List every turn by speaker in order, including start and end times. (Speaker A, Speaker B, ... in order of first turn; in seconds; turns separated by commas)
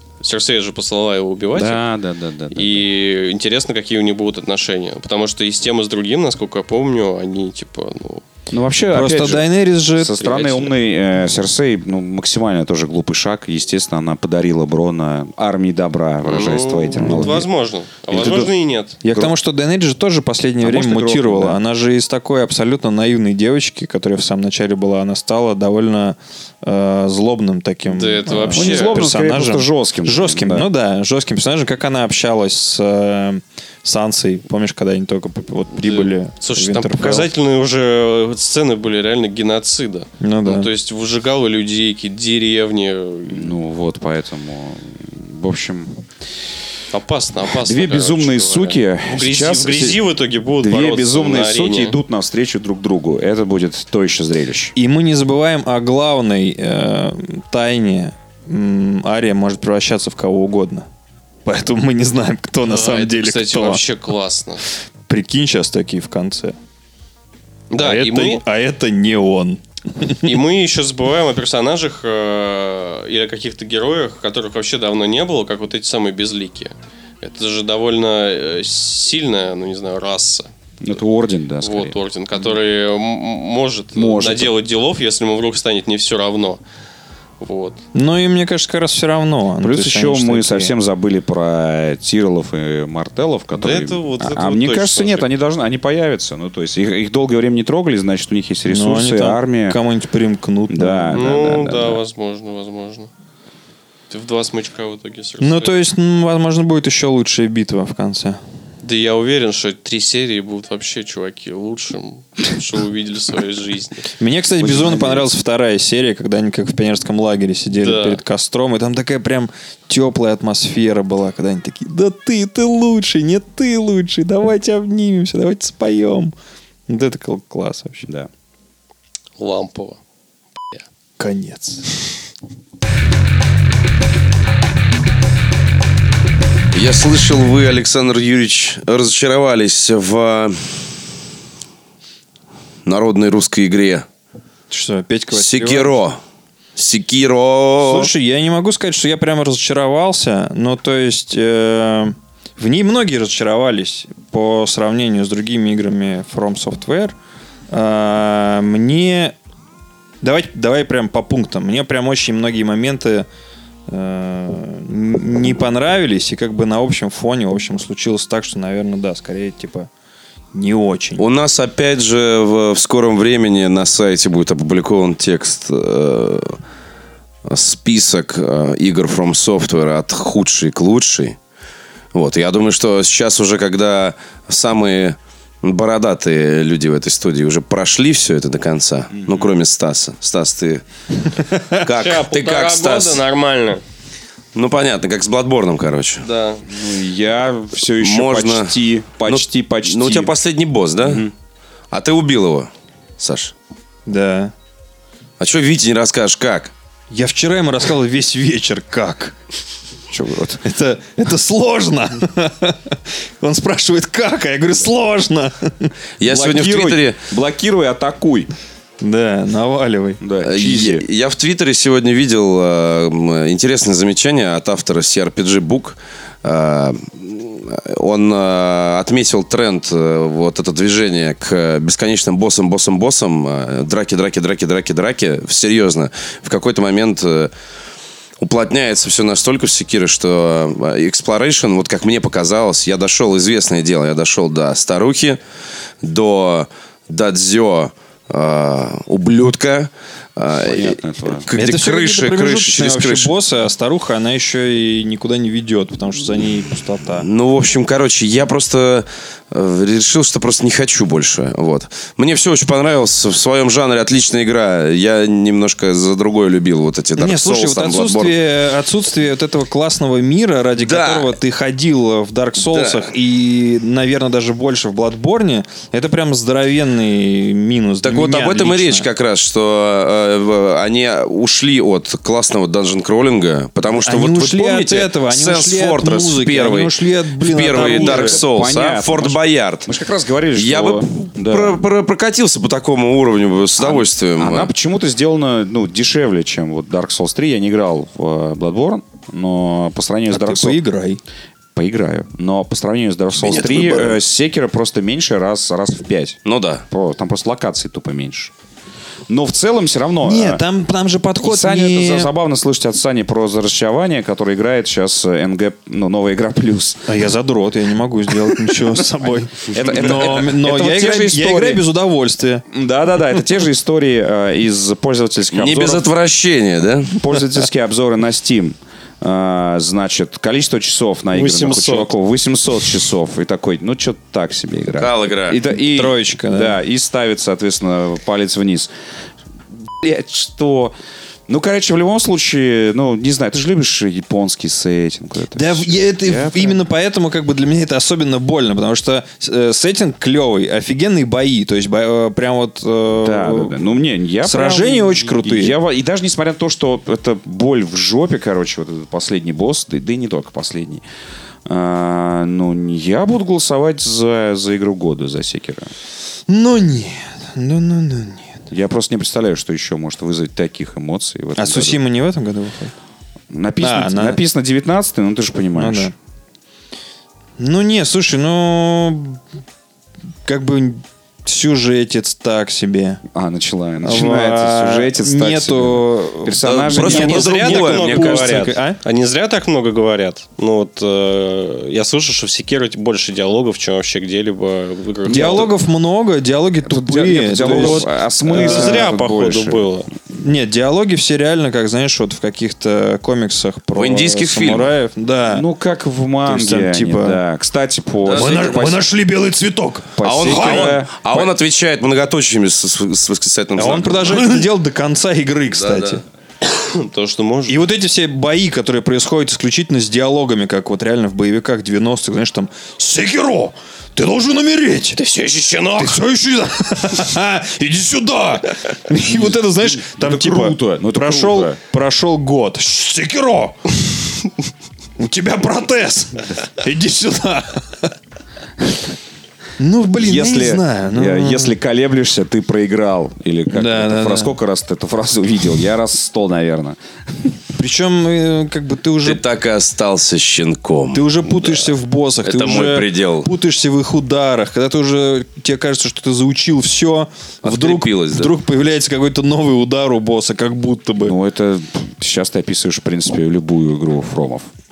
Speaker A: 0.2-1.8, Speaker B: 1.5-2.9, Speaker A: 2.5-8.2, Speaker B: 8.5-17.5, Speaker C: 8.9-10.3, Speaker A: 10.2-10.7, Speaker A: 16.2-19.0, Speaker C: 17.0-17.4, Speaker B: 18.1-18.5, Speaker C: 19.0-37.3, Speaker B: 19.1-19.4, Speaker B: 20.6-21.6, Speaker A: 27.9-29.0, Speaker B: 28.5-30.7, Speaker A: 35.7-43.5, Speaker C: 40.2-40.7, Speaker B: 43.3-46.1, Speaker A: 46.9-52.0, Speaker B: 47.5-50.0, Speaker B: 50.6-54.7, Speaker C: 54.8-60.9, Speaker C: 61.5-63.8, Speaker A: 62.7-64.7, Speaker C: 65.1-66.6, Speaker A: 67.7-68.4, Speaker C: 67.8-70.3, Speaker A: 70.2-80.5, Speaker B: 80.8-82.0, Speaker A: 81.6-86.6, Speaker B: 83.9-84.5, Speaker A: 87.4-87.8, Speaker C: 87.9-90.7, Speaker B: 89.6-99.8, Speaker A: 93.5-95.3, Speaker C: 98.7-101.2, Speaker B: 100.7-102.0, Speaker A: 101.1-103.1, Speaker A: 104.1-105.8, Speaker C: 105.4-108.4, Speaker A: 108.8-114.1, Speaker C: 114.2-126.3, Speaker B: 114.6-115.3, Speaker A: 117.7-118.2, Speaker C: 126.9-128.1, Speaker A: 129.4-130.0, Speaker C: 131.2-132.1, Speaker D: 136.7-140.9, Speaker D: 142.8-144.1, Speaker C: 144.7-146.0, Speaker D: 145.3-146.2, Speaker D: 146.8-148.1, Speaker C: 147.8-157.2, Speaker C: 157.7-159.4, Speaker C: 160.2-163.3, Speaker C: 163.9-169.9, Speaker C: 170.5-171.2, Speaker D: 171.2-176.6, Speaker D: 177.5-181.4, Speaker D: 182.1-190.8, Speaker B: 189.1-189.5, Speaker C: 191.5-191.8, Speaker D: 191.7-193.2, Speaker A: 191.9-193.8, Speaker D: 194.6-196.2, Speaker A: 196.2-196.7, Speaker B: 196.7-200.3, Speaker D: 198.0-201.3, Speaker B: 201.0-201.3, Speaker D: 201.9-203.5, Speaker C: 204.1-204.5, Speaker D: 205.4-206.7, Speaker C: 207.1-209.4, Speaker B: 210.1-210.6, Speaker C: 210.6-215.9, Speaker D: 216.2-217.2, Speaker B: 216.2-218.5, Speaker C: 219.0-220.2, Speaker B: 220.2-221.1, Speaker D: 220.4-237.5, Speaker D: 238.4-245.4, Speaker D: 246.0-253.3, Speaker B: 250.6-251.5, Speaker C: 251.5-257.3, Speaker D: 257.2-268.4, Speaker C: 267.2-279.1, Speaker D: 270.8-271.4, Speaker D: 272.6-273.1, Speaker D: 278.0-289.9, Speaker C: 283.9-288.4, Speaker B: 287.8-291.8, Speaker D: 290.5-294.7, Speaker B: 293.8-300.8, Speaker C: 300.3-301.2, Speaker B: 301.8-308.5, Speaker D: 303.4-304.2, Speaker D: 306.4-306.8, Speaker B: 309.3-310.6, Speaker C: 310.2-312.3, Speaker B: 311.4-317.1, Speaker C: 317.1-322.6, Speaker B: 318.5-321.8, Speaker B: 322.7-326.1, Speaker D: 325.5-327.2, Speaker B: 327.1-338.9, Speaker A: 331.3-332.1, Speaker D: 334.9-335.6, Speaker C: 335.8-336.8, Speaker B: 339.9-340.9, Speaker B: 341.5-346.8, Speaker C: 345.6-353.8, Speaker B: 353.2-361.0, Speaker C: 354.4-355.8, Speaker B: 361.7-365.9, Speaker C: 366.5-368.6, Speaker B: 368.7-372.0, Speaker C: 371.6-372.9, Speaker B: 373.5-376.1, Speaker C: 373.8-374.4, Speaker C: 375.8-376.1, Speaker C: 377.6-379.4, Speaker C: 380.4-383.2, Speaker B: 383.3-387.4, Speaker C: 384.0-389.0, Speaker D: 386.6-388.7, Speaker A: 387.0-395.7, Speaker B: 395.3-395.7, Speaker C: 395.3-399.1, Speaker B: 396.9-399.9, Speaker A: 397.6-400.1, Speaker C: 400.3-405.7, Speaker D: 403.9-404.9, Speaker B: 405.5-409.1, Speaker C: 406.4-407.4, Speaker D: 408.2-408.8, Speaker C: 408.3-411.0, Speaker B: 410.2-411.5, Speaker D: 410.2-414.7, Speaker C: 413.8-416.2, Speaker D: 415.7-416.2, Speaker A: 416.7-417.8, Speaker C: 417.7-425.2, Speaker A: 425.2-426.2, Speaker C: 426.0-433.9, Speaker B: 429.1-431.8, Speaker C: 435.2-438.1, Speaker C: 439.8-441.8, Speaker B: 440.2-447.5, Speaker C: 443.7-444.6, Speaker C: 447.8-449.4, Speaker D: 449.2-451.7, Speaker C: 451.1-461.4, Speaker D: 452.4-453.5, Speaker D: 457.6-458.5, Speaker B: 461.2-464.7